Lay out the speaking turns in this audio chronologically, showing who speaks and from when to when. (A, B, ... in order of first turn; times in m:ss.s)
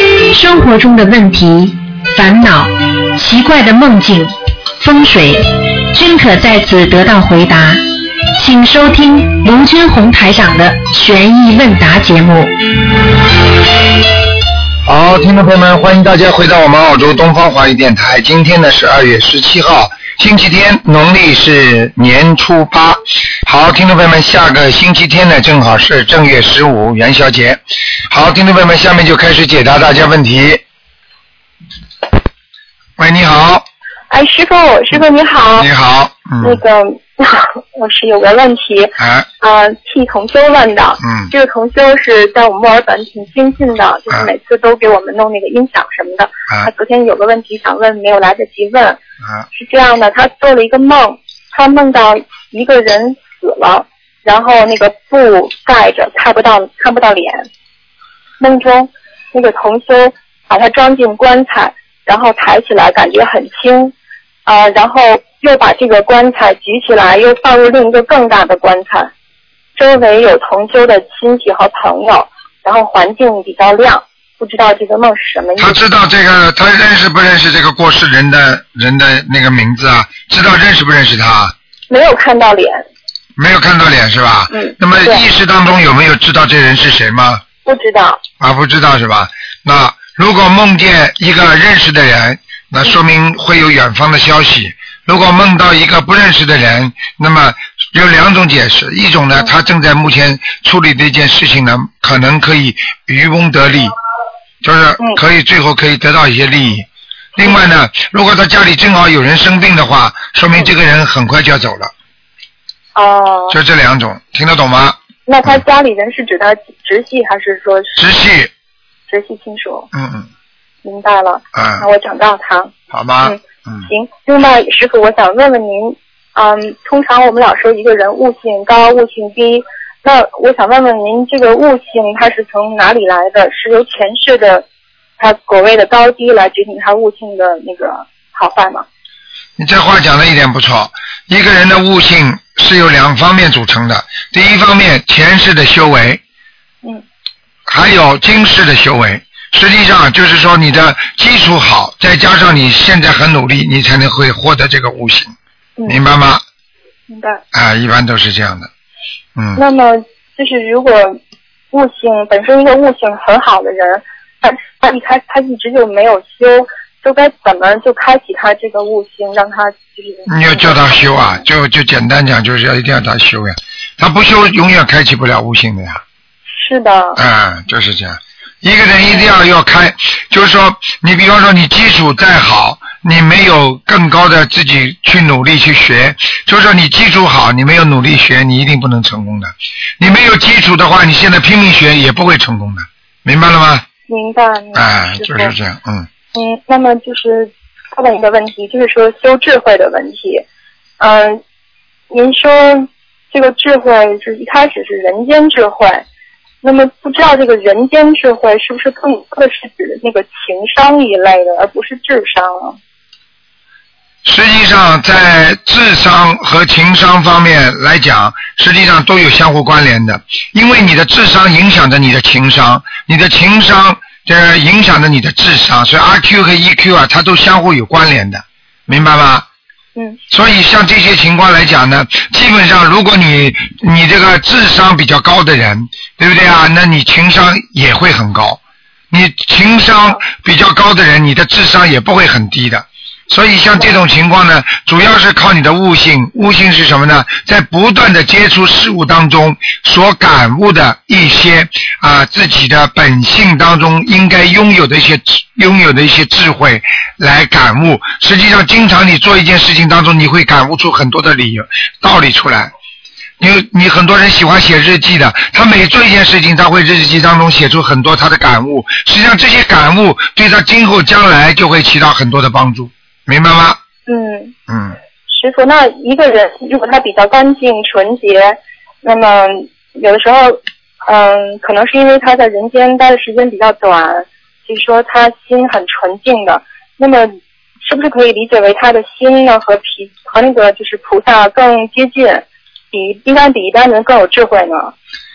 0:00.3-0:07.8 A
0:08.4-0:12.5 A
0:14.8-0:30.6 B
0:33.0-0:33.6 B
0:34.1-0:35.7 C
0:35.6-0:36.6 B
0:36.4-0:49.0 C
0:39.0-0:39.3 B
0:41.0-0:41.3 B
0:49.5-0:57.5 C
0:58.4-1:03.9 C
1:04.4-1:09.1 C
1:09.8-1:15.8 C
1:15.6-1:21.5 B
1:21.9-1:22.8 C
1:23.4-1:27.4 B
1:24.5-1:25.2 C
1:27.6-1:28.2 C
1:28.4-1:43.9 B
1:44.6-1:51.9 B
1:52.9-1:53.6 C
1:53.5-1:55.6 B
1:55.3-1:58.0 C
1:58.0-1:58.5 B
1:59.1-1:59.9 C
1:59.9-2:00.3 B
2:00.8-2:14.6 C
2:01.5-2:01.8 B
2:02.9-2:03.9 B
2:15.2-2:18.8 C
2:19.6-2:26.2 B
2:27.7-2:35.3 B
2:35.8-2:36.4 B
2:37.1-2:37.4 C
2:37.5-2:38.7 B
2:39.4-2:39.6 B
2:39.6-2:41.2 C
2:41.7-2:51.3 C
2:50.3-2:56.0 B
2:56.5-2:57.2 C
2:57.2-3:13.8 B
3:14.1-3:15.5 C
3:14.7-3:16.1 B
3:16.3-3:20.4 C
3:21.0-3:21.4 C
3:22.1-3:26.0 C
3:26.6-3:32.8 C
3:34.2-3:49.5 B
3:50.3-3:58.6 B
3:59.1-4:22.7 B
4:23.4-4:33.8 B
4:34.1-4:34.5 C
4:34.7-4:35.0 B
4:35.3-4:54.9 C